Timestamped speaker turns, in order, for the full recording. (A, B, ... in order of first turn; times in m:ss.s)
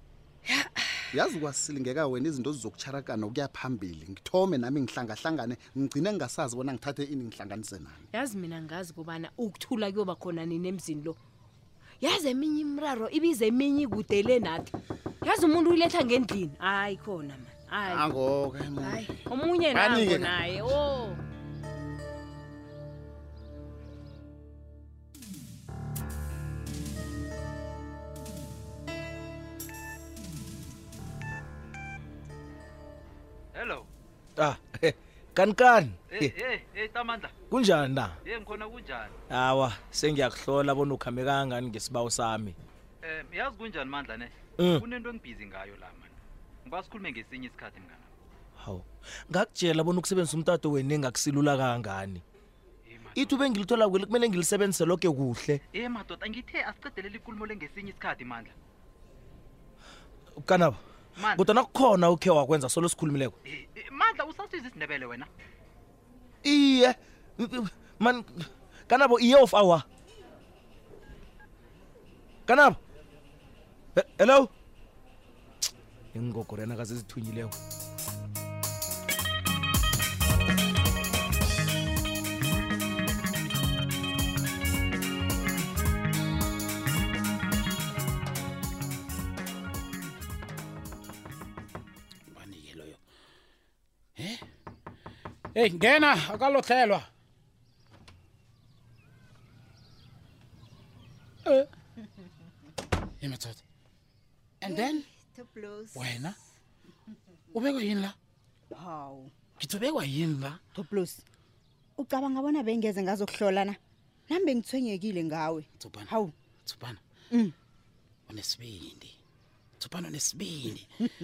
0:00.5-0:01.0 A
0:01.1-0:08.1 B
0:08.1-0:11.2 A
0:12.0-0:18.1 A
0:17.8-0:20.4 B
0:18.8-0:21.2 A
0:33.6-0:33.9 C
0:34.4-0:36.3 D
0:36.1-0:37.4 C
0:37.5-0:38.2 D
0:38.3-0:39.1 C
0:39.3-0:42.6 D
0:43.0-0:46.1 C
0:44.6-0:44.8 D
0:46.7-0:48.1 C
0:48.6-0:52.2 D
0:53.0-0:53.4 C
0:53.2-0:55.6 D
0:55.7-0:58.5 C
1:00.4-1:00.8 D
1:01.2-1:01.5 C
1:01.3-1:03.4 D
1:03.5-1:05.3 C
1:06.4-1:09.9 D
1:12.5-1:12.8 D
1:13.9-1:14.5 D
1:16.1-1:17.6 D
1:32.3-1:33.0 E
1:34.2-1:34.4 E
1:35.5-1:37.1 E
1:43.2-1:43.6 E
1:44.6-1:45.0 E
1:44.6-1:46.2 F
1:45.9-1:46.4 E
1:47.5-1:48.2 E
1:48.7-1:49.3 F
1:49.6-1:50.6 E
1:50.8-1:51.2 F
1:52.0-1:53.8 F
1:54.3-1:56.3 F
1:55.8-1:57.0 E
1:58.3-1:59.2 E
1:59.8-2:00.9 E